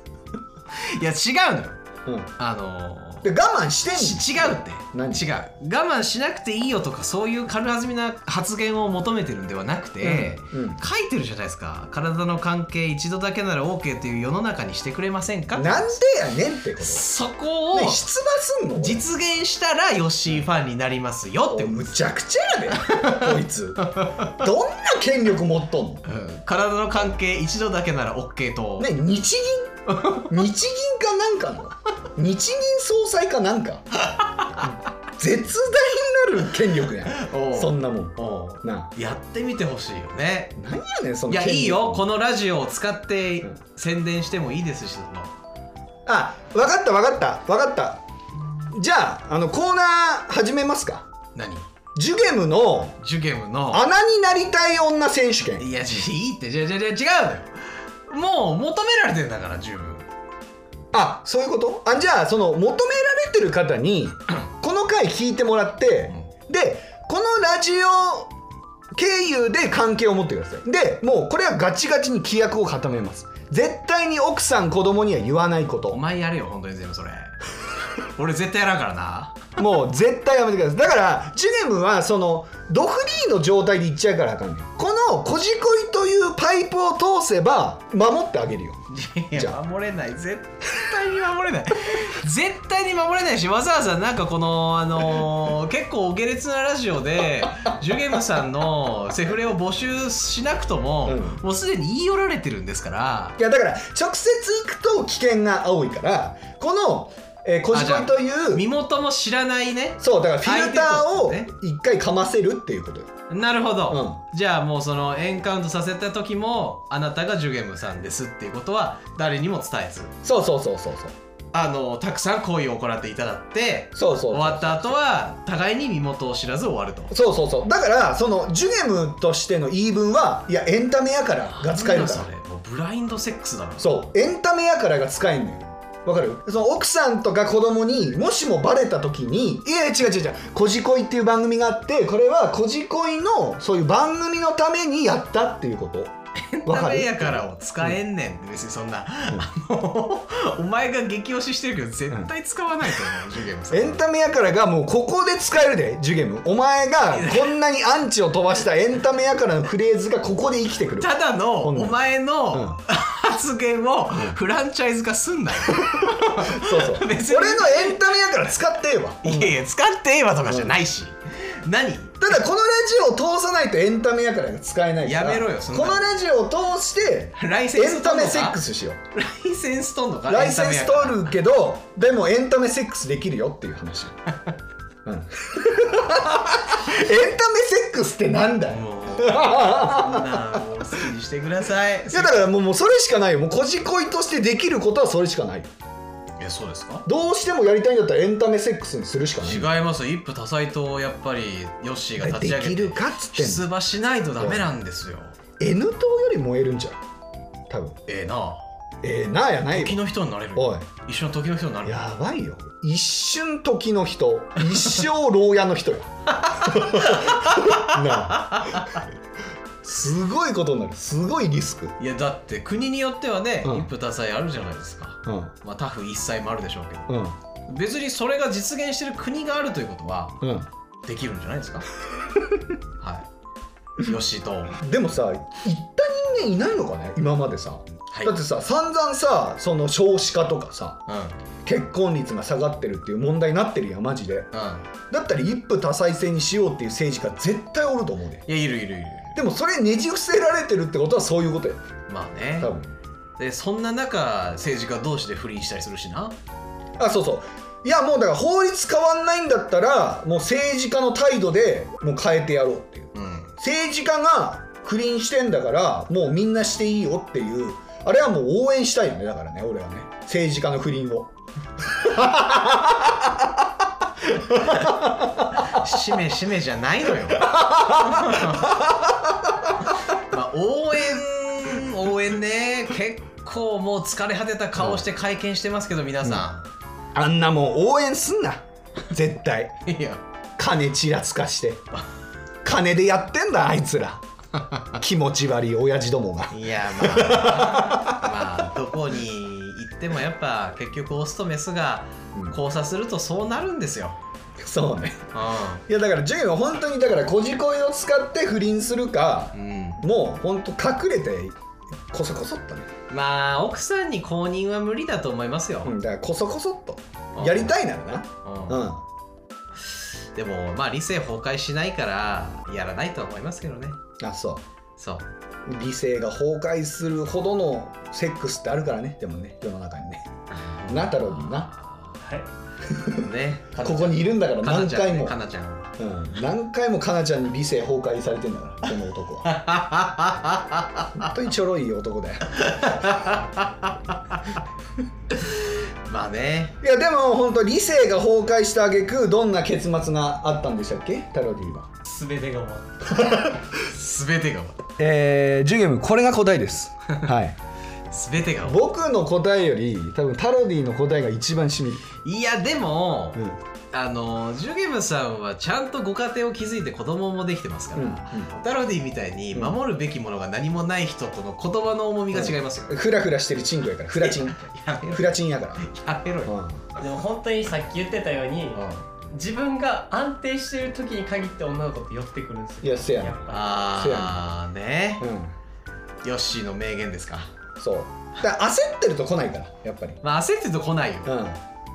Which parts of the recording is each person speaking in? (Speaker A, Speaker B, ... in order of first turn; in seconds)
Speaker A: 0.7-1.8, 2.4-3.3, 3.9-15.9, 16.8-18.0, 18.8-21.9, 22.7-24.4, 26.1-28.9, 29.9-30.3, 34.1-34.7, 37.1-40.5, 41.3-45.4, 51.4-51.7, 53.0-53.9, 55.6-57.5, 58.1-60.1, 75.9-77.4, 78.0-79.6, 88.9-103.4, 107.7-111.5, 113.3-120.1, 121.5-127.1, 131.6-134.0, 146.4-154.1, 157.1-157.5, 161.0-168.1, 169.2-172.2, 175.0-176.1, 177.4-178.6, 179.1-181.3, 188.7-192.4, 196.4-197.1, 199.4-205.3, 208.1-208.6, 209.7-212.0, 216.3-219.1, 222.0-227.2, 227.7-230.4, 231.0-231.9, 233.0-233.3, 234.0-234.8, 238.1-238.3, 241.1-241.4, 244.5-244.9, 248.5-249.4, 252.1-252.7, 253.4-256.4, 263.1-263.5, 274.6-278.8, 279.9-286.7, 289.9-290.2, 294.6-294.9, 296.5-304.2, 305.3-305.9, 309.5-310.0, 313.1-315.9, 317.4-317.8, 318.4-318.8, 319.9-324.0, 325.0-325.3, 330.5-335.9, 339.4-341.3, 342.5-344.6, 345.4-346.8, 353.8-354.8, 358.1-358.8, 362.2-373.0, 374.2-376.5, 378.7-379.0, 383.5-385.3, 386.2-387.5, 390.2-391.3
Speaker B: 2.0-2.3, 3.2-5.3, 10.0-10.8, 15.6-17.1, 17.7-19.0, 21.5-26.0, 28.8-33.9, 34.6-38.9, 40.6-42.1, 46.1-48.0, 48.7-51.1, 52.0-53.0, 53.7-55.7, 60.9-68.3, 68.9-76.0, 79.6-88.8, 89.3-89.6, 101.1-101.4, 103.4-108.7, 110.0-113.1, 113.9-114.2, 120.2-121.1, 124.0-125.0, 127.1-132.3, 133.8-148.0, 153.7-162.0, 162.5-162.8, 166.0-169.6, 170.5-170.7, 172.2-179.0, 180.3-184.2, 185.1-190.7, 192.1-195.7, 197.1-199.7, 202.2-203.6, 204.4-204.7, 205.6-207.0, 207.7-208.0, 209.0-210.0, 210.6-210.9, 211.8-219.0, 219.8-222.0, 223.6-223.9, 225.3-225.5, 227.1-227.4, 230.4-230.7, 234.8-241.0, 241.6-244.5, 245.1-248.4, 249.3-251.8, 252.6-252.9, 257.0-273.7, 274.2-275.8, 277.4-279.8, 284.8-285.0, 287.1-289.8, 290.6-291.9, 292.6-294.2, 295.0-298.7, 304.6-305.3, 305.9-311.6, 312.1-312.9, 315.9-319.0, 324.2-324.6, 325.6-330.3, 330.9-331.7, 332.9-333.2, 333.8-335.4, 336.0-339.6, 341.1-342.6, 346.8-351.9, 353.1-353.7, 355.0-357.6, 358.6-362.1, 367.9-368.6, 372.3-375.9, 376.4-376.8, 382.8-384.4, 385.2-385.5, 387.8-390.2, 391.3-391.6
Speaker C: 352.1-353.1, 377.0-383.5